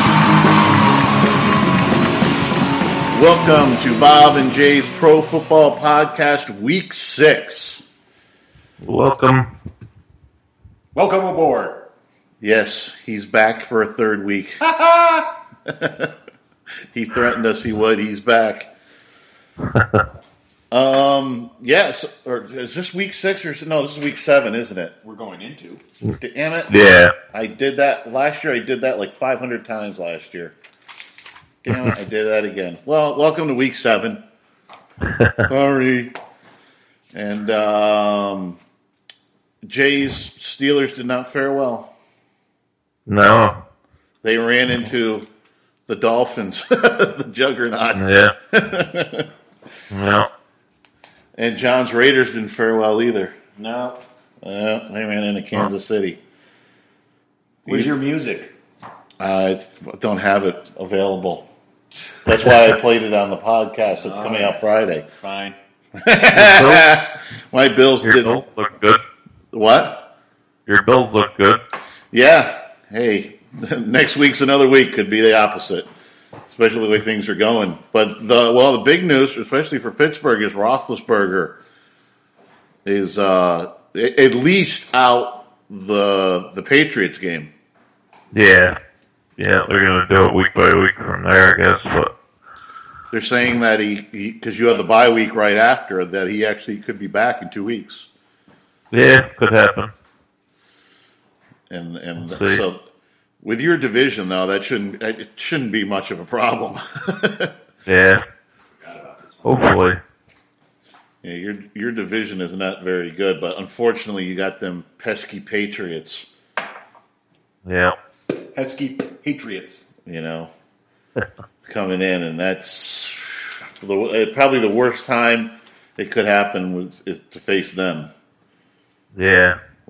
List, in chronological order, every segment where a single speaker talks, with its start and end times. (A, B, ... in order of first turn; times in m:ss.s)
0:03.1-0:07.8 A
0:08.8-0:09.5 B
0:10.9-0:11.9 C
0:12.4-0:14.6 A
0:14.8-0:15.3 C
0:15.7-0:16.1 A
0:16.9-0:18.7 A
0:19.7-0:20.0 B
0:20.7-0:24.9 A
0:25.0-0:25.8 C
0:26.2-0:30.6 A
0:26.7-0:27.1 B
0:31.6-0:34.2 A
0:35.4-0:36.1 A
0:37.1-0:38.6 A
0:39.6-0:41.9 A
0:43.1-0:43.6 B
0:44.2-0:45.3 A
0:45.9-0:49.3 A
0:47.9-0:48.3 B
0:49.9-0:50.3 B
0:51.4-0:53.3 A
0:53.6-0:54.0 C
0:54.4-0:56.2 A
0:57.6-0:57.9 A
0:57.6-0:58.5 C
0:59.2-1:01.5 A
1:02.2-1:05.0 A
1:04.0-1:04.6 C
1:05.2-1:05.6 C
1:06.0-1:08.4 A
1:06.3-1:06.9 B
1:08.0-1:09.0 B
1:09.5-1:10.1 A
1:10.7-1:11.6 B
1:12.1-1:15.9 A
1:16.5-1:21.6 A
1:22.8-1:27.5 A
1:28.3-1:28.8 B
1:29.4-1:32.1 B
1:33.1-1:38.1 A
1:38.9-1:39.9 B
1:41.7-1:42.8 A
1:42.2-1:42.6 B
1:43.4-1:47.5 A
1:47.8-1:48.2 B
1:48.8-1:49.7 C
1:49.4-1:50.0 B
1:51.2-1:56.3 A
1:57.6-1:58.0 B
1:58.5-1:59.8 C
2:00.0-2:00.5 A
2:01.6-2:08.1 A
2:09.1-2:09.6 B